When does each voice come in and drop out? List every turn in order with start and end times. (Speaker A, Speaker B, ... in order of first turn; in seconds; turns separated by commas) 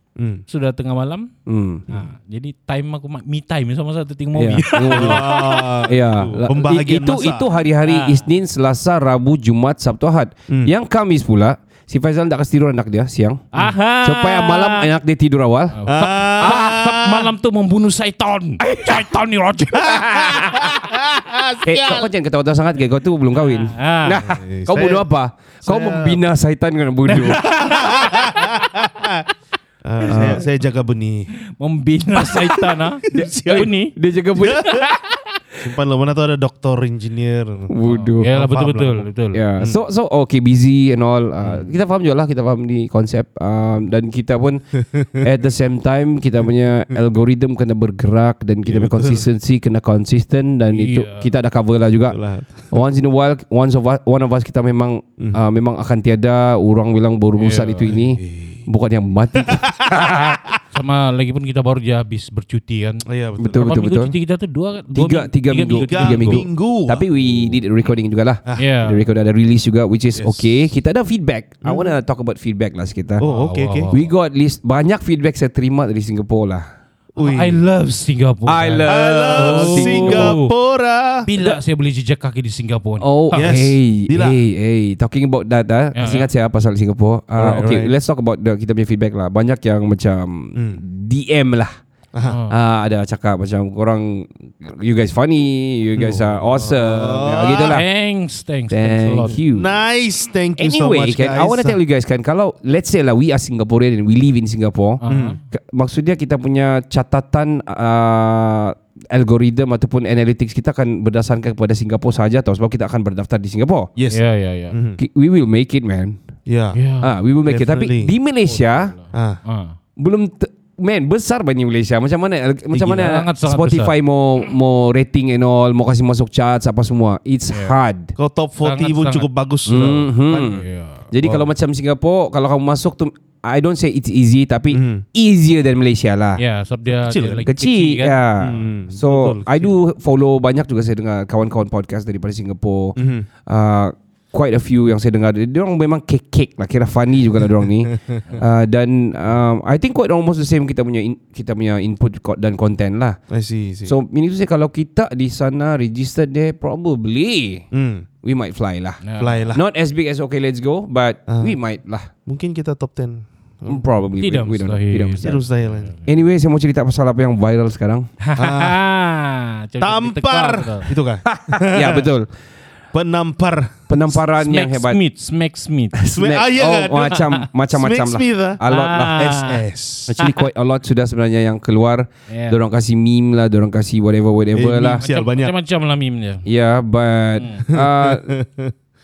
Speaker A: 0.2-0.4, Speaker B: 0.5-1.3, Speaker C: 1.5-1.9, Speaker B: 1.9-5.8, Speaker C: 4.3-13.5, Speaker A: 4.7-7.5, Speaker B: 7.8-8.2, Speaker B: 13.5-14.9, Speaker C: 14.0-15.8, Speaker B: 15.8-20.0, Speaker A: 15.9-17.3, Speaker C: 16.4-16.7, Speaker C: 18.6-19.1, Speaker C: 19.7-20.9, Speaker A: 19.9-22.1, Speaker C: 21.6-27.4, Speaker B: 23.3-24.2, Speaker A: 24.2-25.0, Speaker A: 25.6-26.2, Speaker B: 27.1-28.7, Speaker A: 27.3-29.2, Speaker A: 29.8-31.3, Speaker C: 30.1-30.4, Speaker B: 31.6-34.0, Speaker A: 32.2-33.7, Speaker C: 33.1-35.2, Speaker A: 34.4-34.8, Speaker A: 35.6-37.7, Speaker C: 37.7-38.6, Speaker B: 37.8-39.4, Speaker A: 38.4-39.0, Speaker C: 39.3-44.6, Speaker A: 44.9-45.2, Speaker C: 45.2-52.2, Speaker A: 48.6-49.3, Speaker B: 50.7-51.3, Speaker A: 52.1-52.6, Speaker C: 52.7-60.4, Speaker B: 57.4-58.0, Speaker A: 57.9-58.7, Speaker A: 59.5-60.0, Speaker B: 60.7-66.5, Speaker A: 63.1-63.7, Speaker C: 63.4-64.1, Speaker C: 64.9-73.2, Speaker A: 65.9-67.6, Speaker B: 68.6-69.0, Speaker A: 70.2-70.4, Speaker A: 71.6-72.0, Speaker A: 73.2-73.9, Speaker B: 73.2-74.1, Speaker C: 73.9-76.7, Speaker A: 77.2-77.6, Speaker B: 77.2-80.5, Speaker C: 78.5-80.4, Speaker A: 78.9-81.6, Speaker B: 81.3-83.5, Speaker C: 83.0-91.7, Speaker A: 83.3-84.4, Speaker B: 86.0-86.3, Speaker A: 87.4-87.9, Speaker A: 90.6-90.8, Speaker B: 92.3-92.5, Speaker C: 92.5-97.9, Speaker A: 96.0-97.8, Speaker B: 97.5-99.4, Speaker C: 98.7-99.7, Speaker A: 99.5-101.8, Speaker C: 100.6-113.9, Speaker B: 105.0-105.4, Speaker A: 105.1-105.4, Speaker A: 114.0-115.0, Speaker B: 114.1-114.8, Speaker C: 115.0-116.2, Speaker A: 116.5-116.8, Speaker B: 116.7-117.1, Speaker C: 117.0-118.9, Speaker A: 117.5-118.1, Speaker B: 118.5-119.8, Speaker A: 119.1-119.4, Speaker C: 120.0-128.1, Speaker B: 122.7-123.9, Speaker A: 128.2-130.1, Speaker B: 128.6-129.3, Speaker C: 129.7-136.4, Speaker B: 130.3-131.1, Speaker A: 131.2-131.5, Speaker A: 134.7-135.1, Speaker B: 136.4-138.2, Speaker A: 137.0-137.4, Speaker C: 137.5-153.2, Speaker A: 138.4-139.7, Speaker A: 143.0-143.3, Speaker A: 153.3-153.9, Speaker C: 153.9-157.6, Speaker A: 157.7-158.1, Speaker C: 158.2-162.1, Speaker B: 159.0-159.5, Speaker A: 159.2-159.6, Speaker A: 161.3-161.6, Speaker A: 162.3-163.8, Speaker C: 163.7-165.4, Speaker B: 164.2-166.1, Speaker A: 165.2-165.9, Speaker C: 166.1-168.1, Speaker B: 168.2-170.9, Speaker A: 168.4-168.8, Speaker A: 169.8-172.1, Speaker C: 171.3-172.3, Speaker A: 172.9-174.0, Speaker C: 173.9-175.0, Speaker B: 174.4-176.0, Speaker A: 176.0-178.6, Speaker C: 176.1-179.3, Speaker B: 178.6-179.6, Speaker A: 179.2-180.2, Speaker C: 180.1-185.0, Speaker B: 182.3-182.6, Speaker A: 184.5-185.5, Speaker B: 184.9-186.4, Speaker C: 186.5-188.3, Speaker B: 187.3-187.7, Speaker A: 187.7-188.7